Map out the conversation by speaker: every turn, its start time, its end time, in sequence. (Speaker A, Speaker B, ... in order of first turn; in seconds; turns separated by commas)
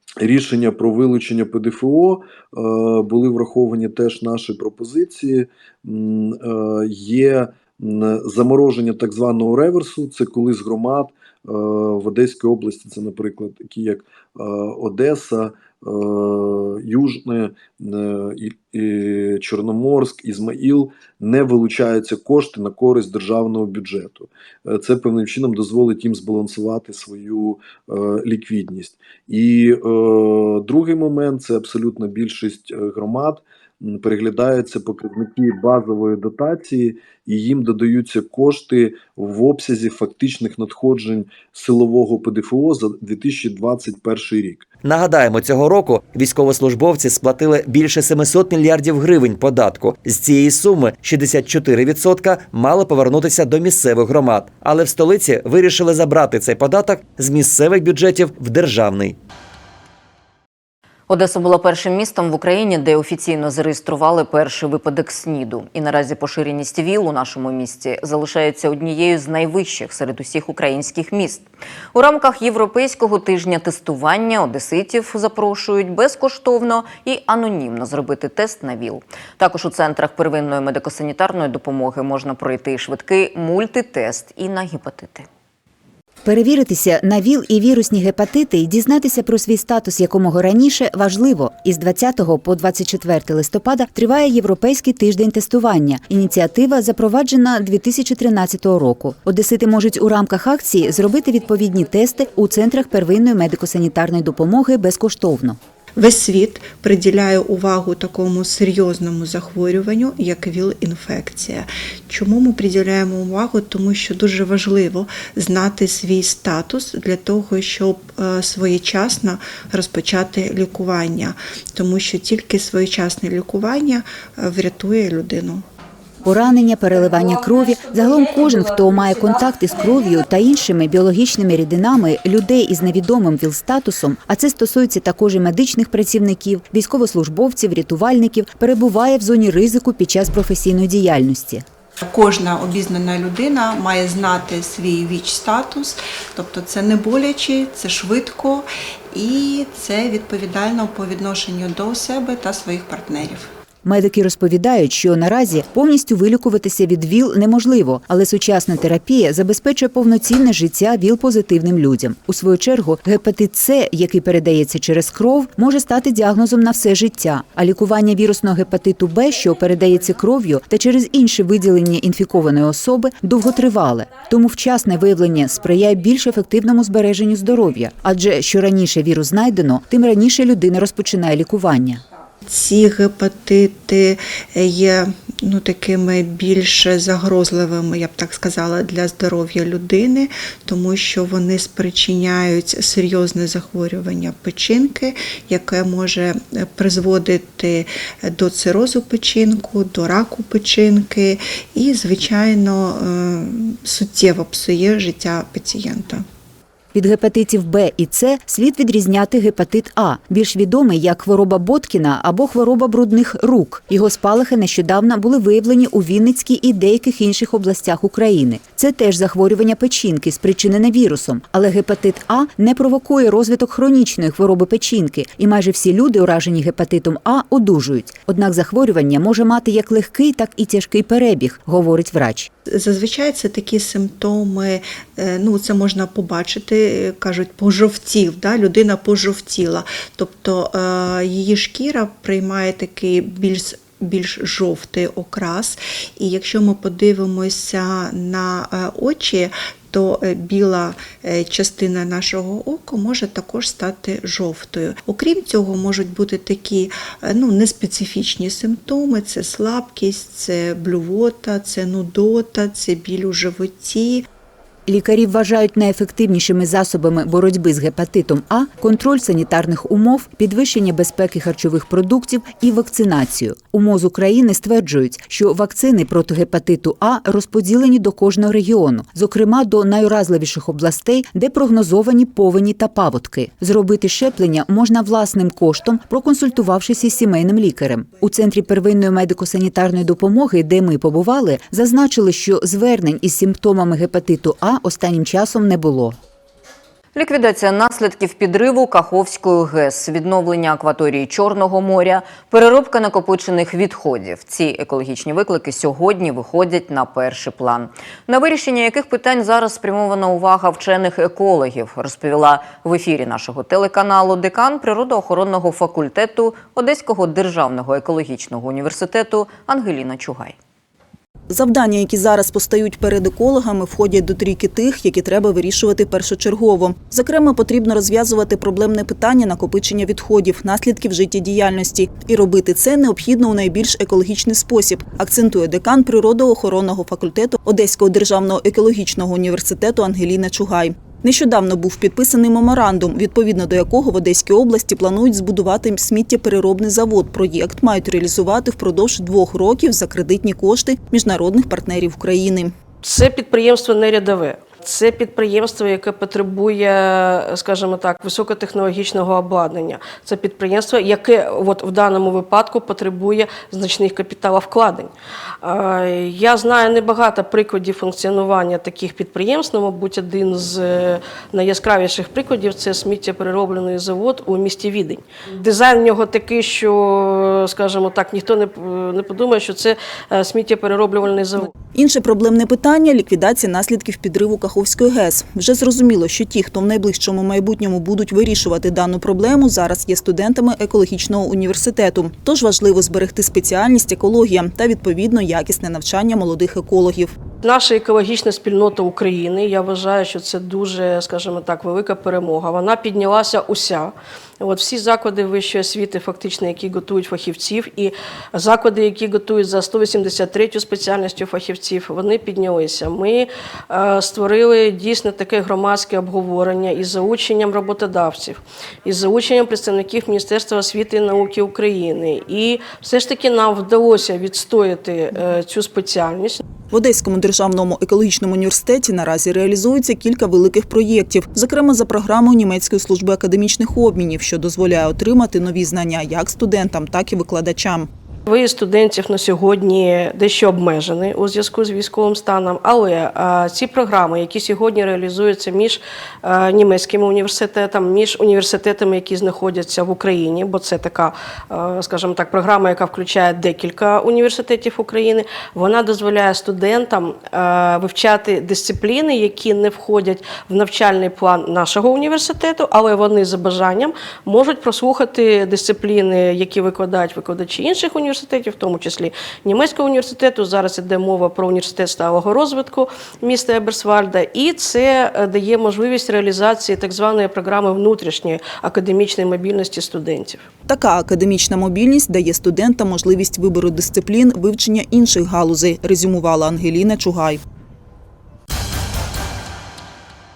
Speaker A: 0.2-44.6, Speaker B: 44.8-59.1, Speaker C: 61.1-85.3, Speaker D: 86.2-105.6, Speaker E: 106.0-125.6, Speaker D: 126.2-141.6, Speaker E: 142.0-153.5, Speaker D: 153.8-182.0, Speaker E: 182.4-206.2, Speaker D: 206.9-232.5, Speaker E: 232.7-264.2, Speaker D: 264.9-296.2, Speaker C: 297.1-320.5, Speaker F: 321.5-352.7, Speaker G: 353.0-365.1, Speaker G: 365.6-381.7, Speaker F: 381.9-397.4, Speaker G: 397.6-426.6, Speaker F: 426.9-438.1, Speaker G: 438.5-480.6, Speaker F: 480.9-487.6